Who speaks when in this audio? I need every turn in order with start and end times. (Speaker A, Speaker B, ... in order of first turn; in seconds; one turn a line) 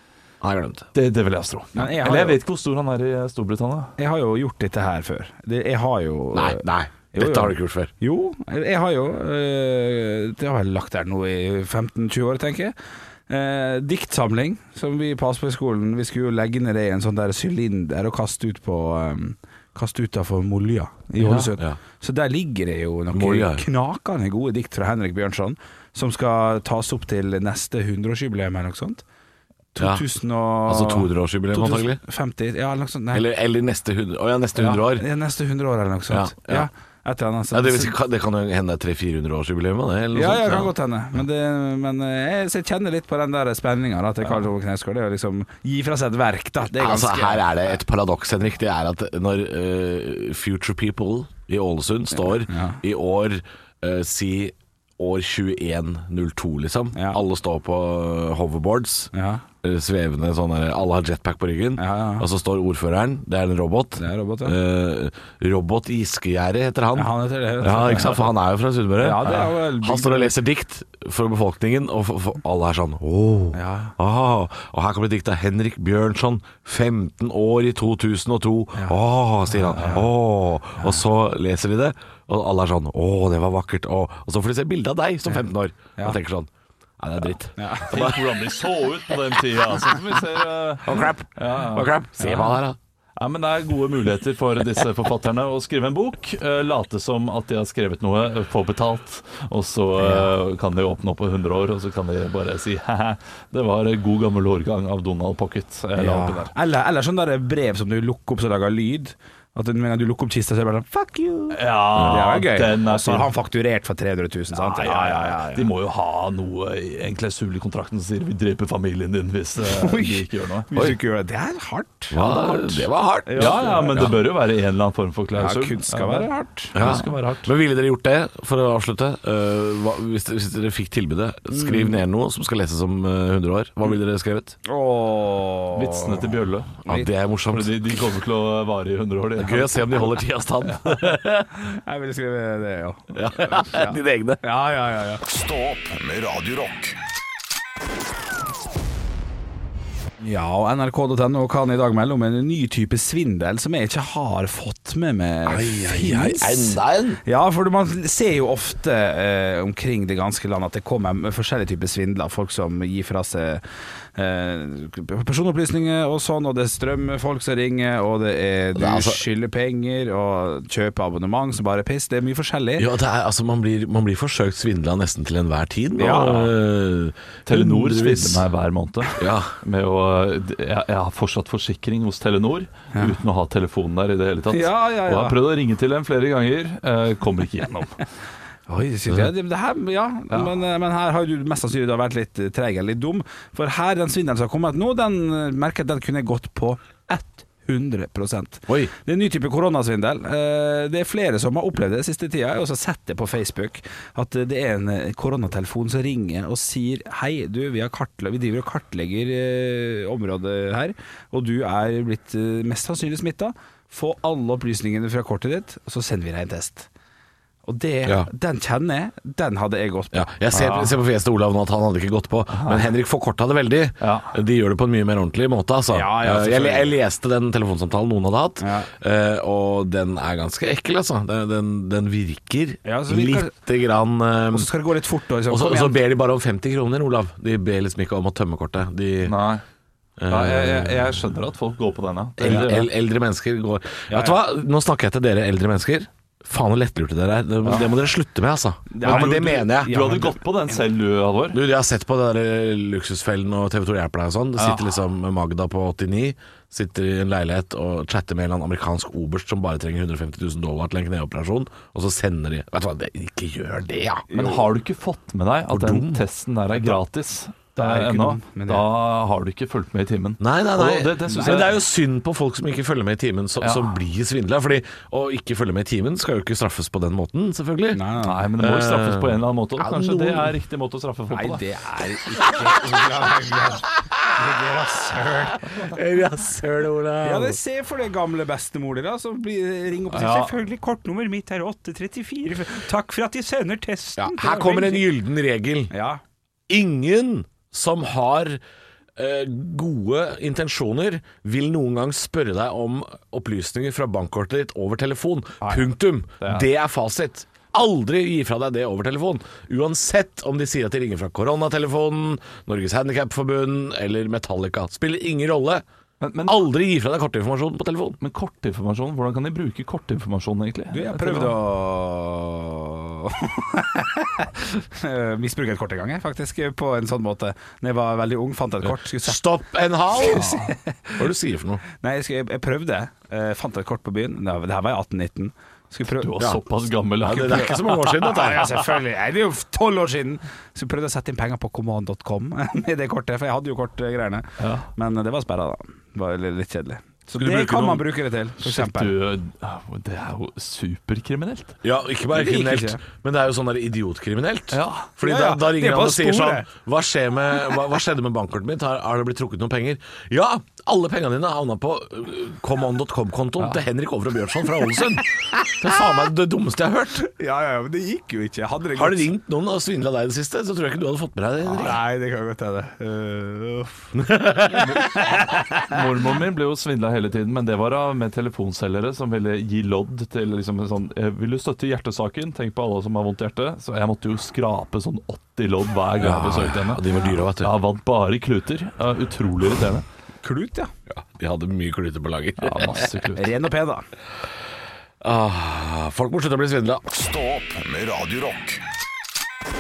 Speaker A: 0.4-0.9
Speaker B: 0.9-3.9
Speaker C: 1.8-2.4
Speaker C: 4.0-12.7
Speaker A: 6.3-7.9
Speaker C: 13.3-29.0
Speaker B: 21.2-21.5
Speaker A: 23.1-23.6
Speaker C: 29.8-33.3
Speaker A: 29.8-30.0
Speaker A: 30.7-32.0
Speaker A: 33.1-35.1
Speaker C: 34.6-38.0
Speaker A: 36.1-36.7
Speaker A: 37.5-40.7
Speaker C: 40.1-47.6
Speaker A: 46.8-59.1
Speaker C: 52.5-52.8
Speaker C: 56.9-57.2
Speaker C: 59.1-59.4
Speaker A: 59.6-88.2
Speaker C: 61.8-62.3
Speaker C: 64.0-64.6
Speaker C: 67.0-68.3
Speaker C: 69.0-70.3
Speaker C: 73.5-74.0
Speaker C: 79.6-80.1
Speaker C: 87.6-88.0
Speaker B: 87.9-92.5
Speaker A: 90.8-92.8
Speaker B: 93.2-106.5
Speaker A: 100.0-100.3
Speaker C: 106.0-115.7
Speaker B: 111.5-113.3
Speaker A: 112.0-112.3
Speaker B: 114.5-120.7
Speaker C: 119.6-124.2
Speaker A: 122.1-124.2
Speaker B: 123.4-127.5
Speaker C: 125.3-127.0
Speaker A: 126.7-134.6
Speaker C: 131.5-131.9
Speaker C: 134.7-136.3
Speaker B: 135.8-136.8
Speaker A: 136.8-137.7
Speaker B: 137.5-140.0
Speaker A: 139.4-141.5
Speaker B: 140.7-141.1
Speaker C: 141.6-145.2
Speaker A: 143.1-144.4
Speaker D: 145.2-147.0
Speaker C: 150.2-163.6
Speaker A: 155.4-157.2
Speaker C: 164.2-172.9
Speaker A: 168.8-169.2
Speaker A: 172.8-178.4
Speaker C: 176.0-176.5
Speaker B: 177.5-188.0
Speaker A: 179.2-179.5
Speaker C: 184.5-185.4
Speaker C: 188.7-216.9
Speaker C: 217.7-220.3
Speaker A: 220.1-234.7
Speaker B: 220.5-220.9
Speaker B: 222.5-222.9
Speaker B: 224.0-224.3
Speaker C: 225.9-226.9
Speaker C: 228.6-228.9
Speaker C: 232.8-233.6
Speaker C: 234.5-236.0
Speaker A: 235.5-239.4
Speaker B: 239.2-239.6
Speaker A: 240.2-241.2
Speaker B: 240.3-242.9
Speaker A: 242.4-250.0
Speaker C: 244.1-244.4
Speaker C: 248.9-250.8
Speaker B: 249.0-251.6
Speaker A: 251.5-264.4
Speaker B: 254.6-254.9
Speaker C: 264.3-264.6
Speaker B: 264.3-271.8
Speaker A: 265.7-266.2
Speaker C: 267.8-268.9
Speaker A: 270.4-278.0
Speaker B: 273.6-273.9
Speaker C: 277.9-278.5
Speaker B: 278.2-281.6
Speaker A: 278.6-280.5
Speaker C: 281.3-285.6
Speaker A: 285.8-287.6
Speaker C: 287.2-295.1
Speaker B: 290.1-290.5
Speaker A: 294.2-295.9
Speaker C: 295.9-296.2
Speaker A: 296.7-298.6
Speaker A: 299.2-315.8
Speaker B: 306.4-306.7
Speaker B: 316.2-316.6
Speaker A: 316.4-318.2
Speaker B: 318.2-321.6
Speaker C: 320.9-329.4
Speaker A: 329.1-330.6
Speaker C: 330.1-331.2
Speaker A: 331.2-331.8
Speaker C: 332.0-336.4
Speaker B: 336.2-338.0
Speaker A: 337.2-338.8
Speaker C: 338.0-349.1
Speaker B: 344.6-344.9
Speaker A: 347.4-348.0
Speaker B: 348.6-351.8
Speaker A: 351.8-367.3
Speaker C: 352.3-353.0
Speaker B: 354.7-355.1
Speaker C: 355.2-356.7
Speaker C: 367.2-369.3
Speaker A: 369.0-372.0
Speaker C: 371.6-374.1
Speaker A: 374.1-375.0
Speaker C: 374.7-375.9
Speaker B: 375.8-390.0
Speaker A: 386.2-387.7
Speaker C: 390.4-390.9
Speaker A: 391.1-393.1
Speaker B: 392.6-393.6
Speaker C: 393.4-394.1
Speaker A: 395.2-397.1
Speaker D: 397.1-398.8